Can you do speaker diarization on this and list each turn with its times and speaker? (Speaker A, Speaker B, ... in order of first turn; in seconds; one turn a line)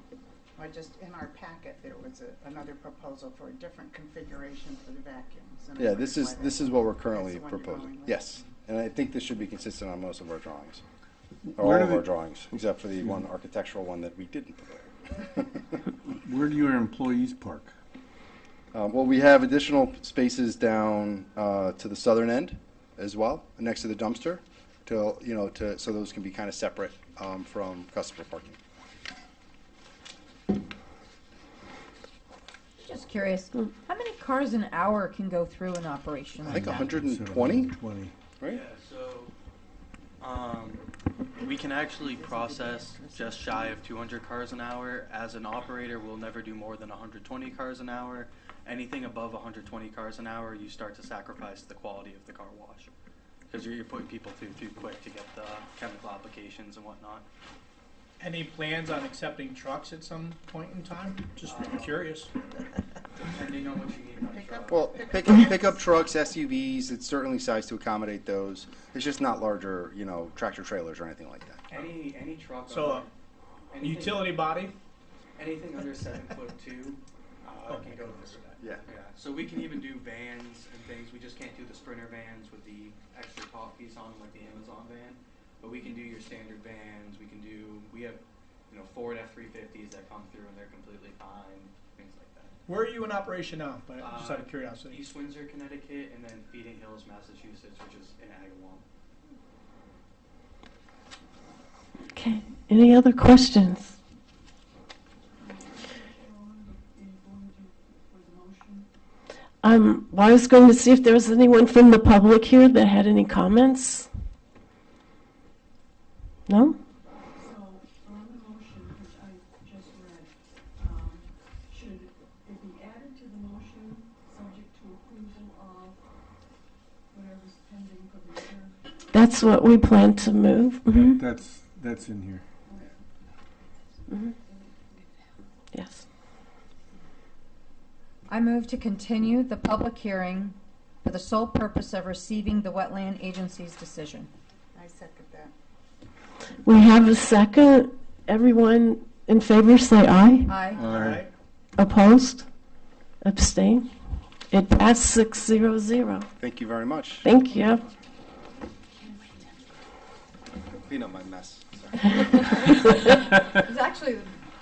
Speaker A: 0.6-8.5
Speaker B: 5.8-10.8
Speaker C: 11.6-12.1
Speaker B: 11.6-15.8
Speaker C: 16.2-17.7
Speaker B: 18.7-28.6
Speaker D: 32.8-36.9
Speaker B: 36.4-37.7
Speaker C: 36.5-38.1
Speaker E: 38.4-39.3
Speaker E: 40.2-40.8
Speaker E: 41.4-52.9
Speaker A: 42.1-43.7
Speaker E: 53.5-57.2
Speaker F: 58.2-62.3
Speaker E: 61.4-62.0
Speaker E: 63.1-64.9
Speaker A: 64.3-65.7
Speaker B: 64.7-71.6
Speaker E: 71.7-73.1
Speaker F: 72.7-73.1
Speaker E: 73.7-74.5
Speaker F: 73.8-74.8
Speaker E: 75.4-92.6
Speaker F: 77.7-78.6
Speaker B: 78.6-78.8
Speaker F: 92.7-95.0
Speaker E: 94.0-98.8
Speaker G: 102.1-103.9
Speaker H: 105.3-108.9
Speaker G: 109.6-114.1
Speaker G: 116.5-116.8
Speaker H: 117.3-126.1
Speaker H: 127.1-128.8
Speaker G: 129.1-131.1
Speaker C: 130.9-132.4
Speaker H: 132.7-132.9
Speaker H: 134.1-135.3
Speaker G: 135.7-136.0
Speaker D: 138.3-144.3
Speaker A: 144.7-145.5
Speaker G: 146.6-150.5
Speaker D: 150.4-151.0
Speaker F: 150.8-151.3
Speaker C: 150.8-151.2
Speaker G: 151.8-152.5
Speaker G: 153.2-153.9
Speaker G: 154.5-156.3
Speaker B: 156.4-157.2
Speaker G: 157.2-157.8
Speaker B: 160.8-162.2
Speaker D: 162.2-162.9
Speaker D: 163.6-164.3